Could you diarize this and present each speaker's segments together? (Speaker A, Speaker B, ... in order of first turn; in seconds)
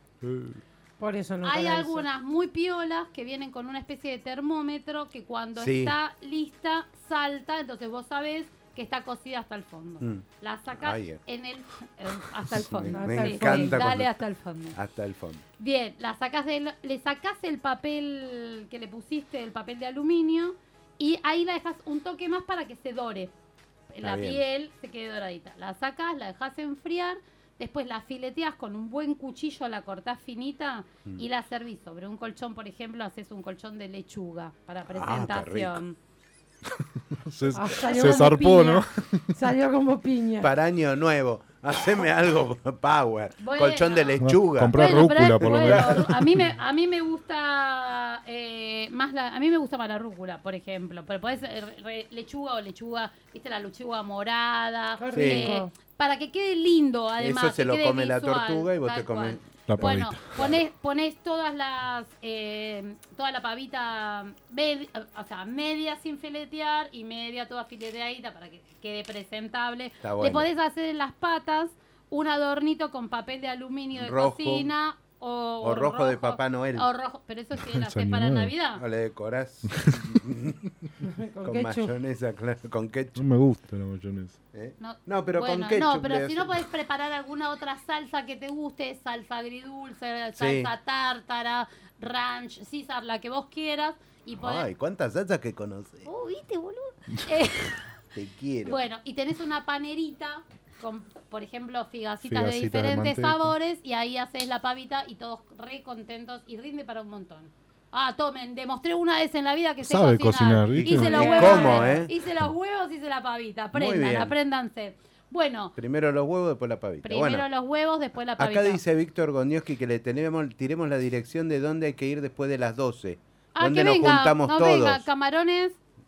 Speaker A: 0.2-0.6, 37.3-39.3, 44.2-46.5, 59.7-60.3, 77.6-78.5, 79.7-80.0, 83.2-84.4, 102.2-103.5, 109.8-111.7
Speaker B: 1.0-2.1, 12.9-13.8, 37.5-38.8, 39.3-40.5, 55.0-55.7, 81.0-81.9
Speaker C: 1.4-14.8, 15.6-23.3, 23.9-36.0, 37.8-38.8, 43.4-44.2, 44.7-78.8, 84.8-94.7, 96.0-97.9, 98.6-115.7, 117.0-118.8, 123.5-125.8
Speaker D: 5.6-6.0, 10.0-11.2, 12.4-14.2, 14.7-15.4, 24.0-24.4, 34.9-35.8, 40.4-46.0, 55.1-55.6, 57.2-60.6, 70.0-70.5, 73.9-74.7, 75.6-76.9, 78.8-80.6, 81.4-83.2, 84.5-86.7, 90.4-90.7, 94.3-96.1, 98.2-98.8, 110.8-112.1, 113.7-114.4, 115.8-117.5, 118.4-125.1